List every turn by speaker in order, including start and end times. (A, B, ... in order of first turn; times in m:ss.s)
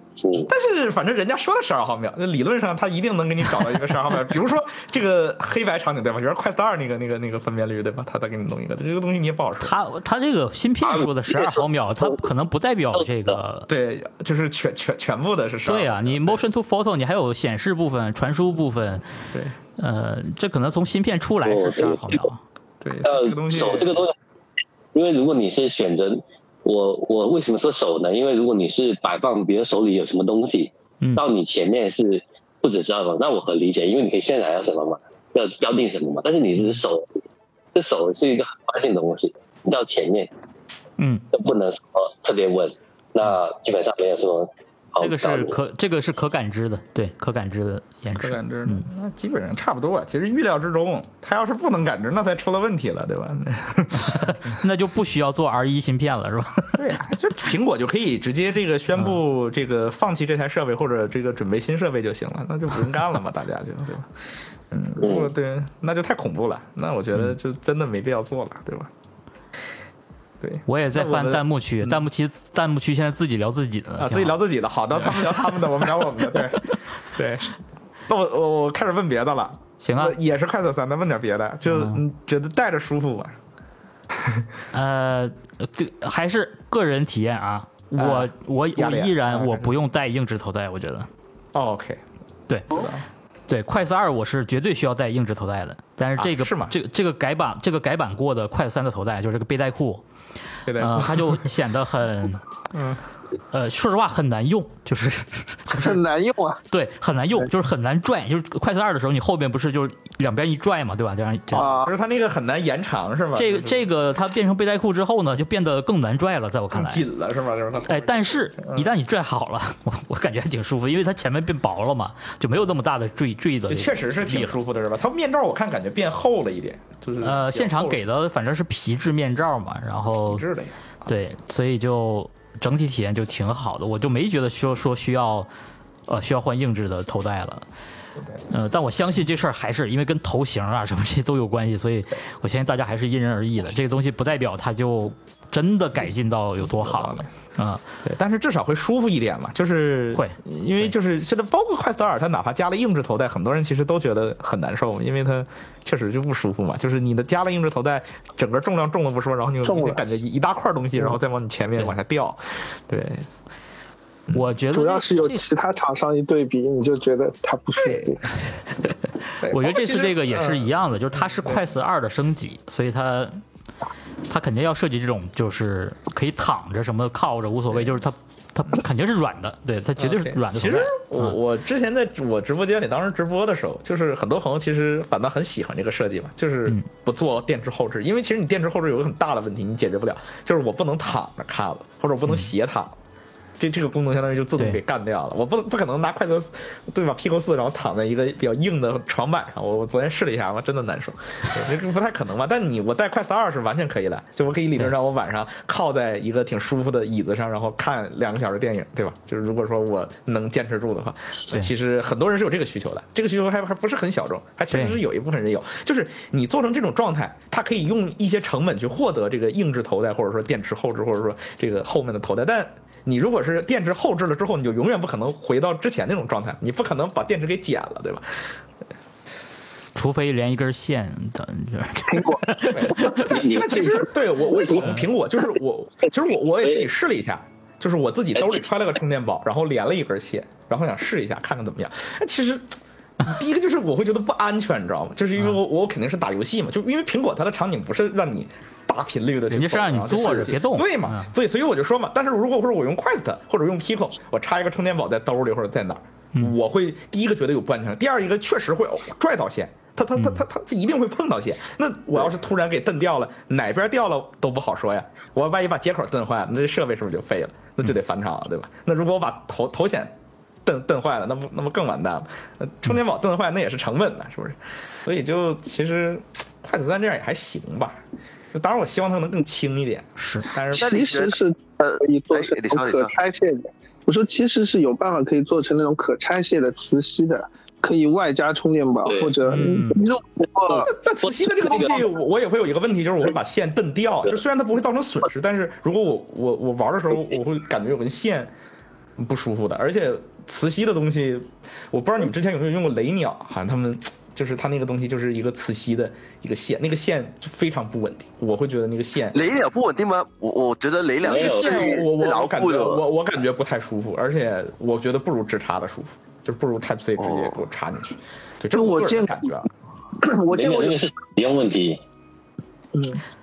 0:00.2-0:00.5 A
0:00.4-0:09.7 B
0:09.6-0:13.7 C
0:10.8-0:12.2 A
0:12.9-0:13.4 A
0:13.7-0:16.4 B
0:15.6-0:19.0 C
0:19.8-0:22.4 C
0:21.4-0:22.2 A
0:22.8-0:24.0 B
0:23.0-0:24.1 A
0:24.9-0:37.2 A
0:37.7-0:40.3 A
0:41.0-0:41.2 C
0:41.3-0:45.6 A
0:45.0-0:48.9 C
0:48.2-0:54.4 B
0:53.9-0:57.1 C
0:56.8-1:04.1 B
1:04.7-1:08.9 B
1:05.0-1:05.3 A
1:10.4-1:12.0 B
1:10.7-1:14.4 C
1:14.0-1:17.5 B
1:14.9-1:16.4 C
1:18.1-1:23.3 B
1:19.8-1:20.2 C
1:21.6-1:22.0 C
1:24.7-1:31.1 C
1:27.9-1:29.8 B
1:31.5-1:32.0 B
1:32.7-1:33.0 B
1:33.5-1:40.0 C
1:36.2-1:36.8 B
1:40.6-1:41.5 B
1:40.7-1:42.4 C
1:42.7-1:43.0 B
1:43.5-1:46.0 C
1:45.7-1:46.6 D
1:46.7-1:51.7 C
1:51.5-1:51.9 D
1:51.5-1:53.8 B
1:53.3-1:57.0 C
1:56.7-1:58.9 B
1:57.8-2:04.6 C
2:03.7-2:08.0 B
2:07.2-2:10.4 C
2:10.3-2:10.9 B
2:11.0-2:15.5 C
2:16.1-2:17.6 C
2:18.5-2:27.8 C
2:26.7-2:27.3 B
2:28.0-2:43.3 B
2:30.1-2:30.9 C
2:39.6-2:40.0 D
2:44.3-2:45.4 C
2:44.7-2:48.3 D
2:47.8-2:48.2 B
2:49.3-2:53.4 C
2:49.4-2:51.7 B
2:54.3-3:01.4 C
2:57.7-2:58.0 B
3:00.0-3:13.0 B
3:13.6-3:48.2 B
3:34.7-3:35.0 C
3:49.9-3:53.4 C
3:52.7-4:30.1 B
3:53.1-3:54.8 A
3:58.4-3:58.6 A
4:09.5-4:11.3 C
4:20.2-4:20.4 C
4:30.6-4:38.0 B
4:38.5-4:41.1 B
4:40.2-4:40.5 C
4:40.7-4:50.9 D
4:40.7-4:43.2 E
4:49.0-4:49.6 A
4:49.5-4:50.0 C
4:50.8-4:58.5 B
4:51.2-4:52.1 A
4:59.2-5:09.6 B
5:09.3-5:13.0 E
5:11.2-5:12.0 A
5:11.2-5:19.7 B
5:17.2-5:17.6 E
5:18.7-5:19.3 D
5:20.2-5:21.0 D
5:20.5-5:22.0 A
5:22.9-5:23.2 D